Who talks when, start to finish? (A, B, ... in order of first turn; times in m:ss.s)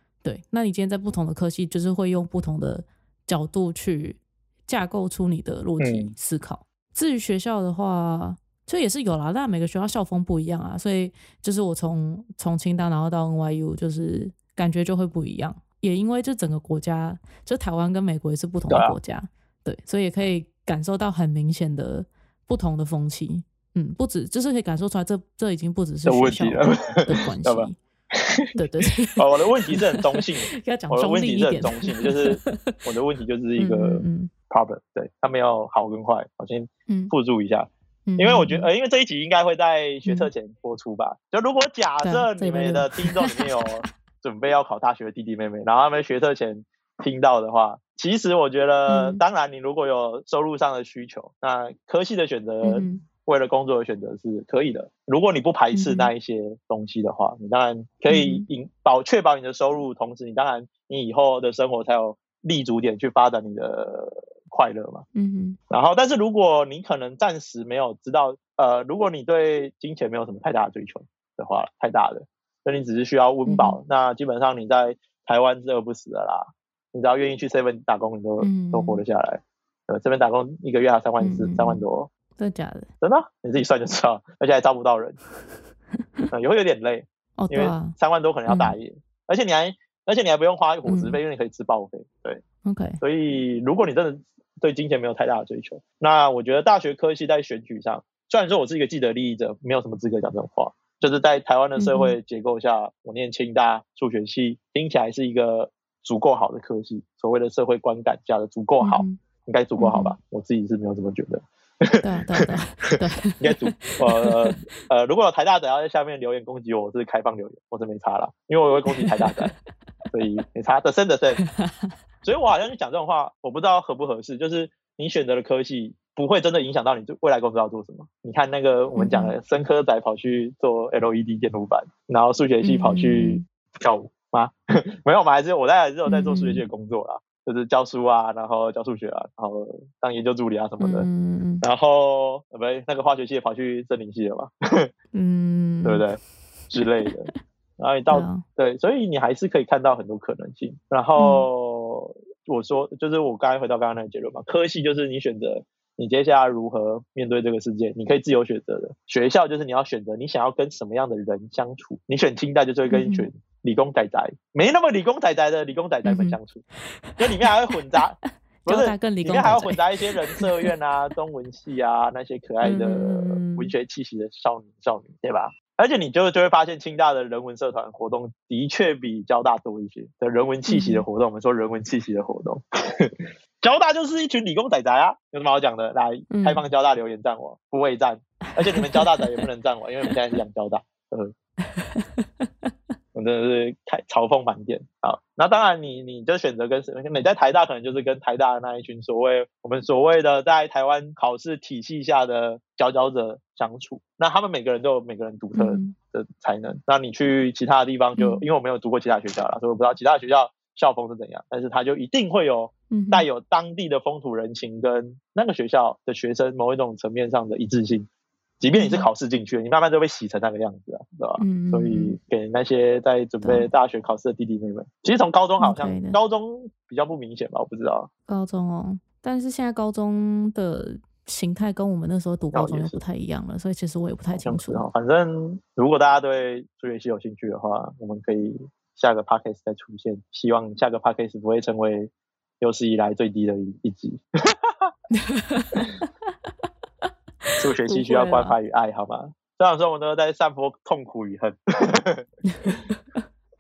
0:00.2-0:27.8 A
0:05.8-0:06.1 B
0:18.7-0:19.0 B
0:26.1-0:28.6 B
0:28.6-0:32.8 A
0:29.2-1:05.1 B
0:33.6-0:34.3 A
0:38.1-0:38.7 A
0:40.0-0:40.3 A
0:42.0-0:43.8 A
0:48.9-0:49.2 A
0:52.6-0:53.0 A
0:55.7-0:56.1 A
0:58.1-0:58.5 A
1:05.2-1:05.6 A
1:05.7-1:22.1 B
1:13.5-1:13.8 A
1:18.4-1:19.0 A
1:21.2-1:21.8 A
1:22.4-1:22.9 A
1:23.0-1:25.2 B
1:26.3-1:32.4 B
1:27.4-1:28.0 A
1:28.5-1:28.8 A
1:30.9-1:31.2 A
1:32.6-1:33.0 A
1:33.0-1:59.5 B
1:41.8-1:42.2 A
1:48.8-1:49.2 A
1:49.8-1:50.2 A
1:52.0-1:54.6 A
1:58.9-1:59.5 A
2:00.1-2:01.4 B
2:01.4-2:01.9 A
2:02.2-2:21.1 B
2:09.0-2:09.4 A
2:12.6-2:13.4 A
2:16.1-2:16.6 A
2:20.8-2:21.6 A
2:21.6-2:24.9 B
2:25.1-2:26.0 A
2:25.8-2:46.6 B
2:26.8-2:27.3 A
2:28.1-2:28.4 A
2:31.2-2:31.5 A
2:42.9-2:43.3 A
2:46.1-2:46.4 A
2:47.2-3:11.4 B
2:48.7-2:49.8 A
2:52.6-2:53.7 A
3:00.7-3:01.0 A
3:06.3-3:06.6 A
3:08.6-3:09.4 A
3:11.7-3:12.7 A
3:13.1-3:38.1 B
3:25.6-3:25.9 A
3:28.2-3:28.5 A
3:32.9-3:33.3 A
3:38.6-3:48.1 B
3:38.8-3:39.1 A
3:41.4-3:42.2 A
3:43.4-3:43.7 A
3:45.6-3:46.2 A
3:48.3-3:54.8 A
3:52.5-3:53.0 B
3:54.3-4:02.1 B
4:02.6-4:04.2 B
4:05.1-4:06.1 A
4:07.5-4:08.6 A
4:07.6-4:12.2 B
4:12.6-4:13.0 A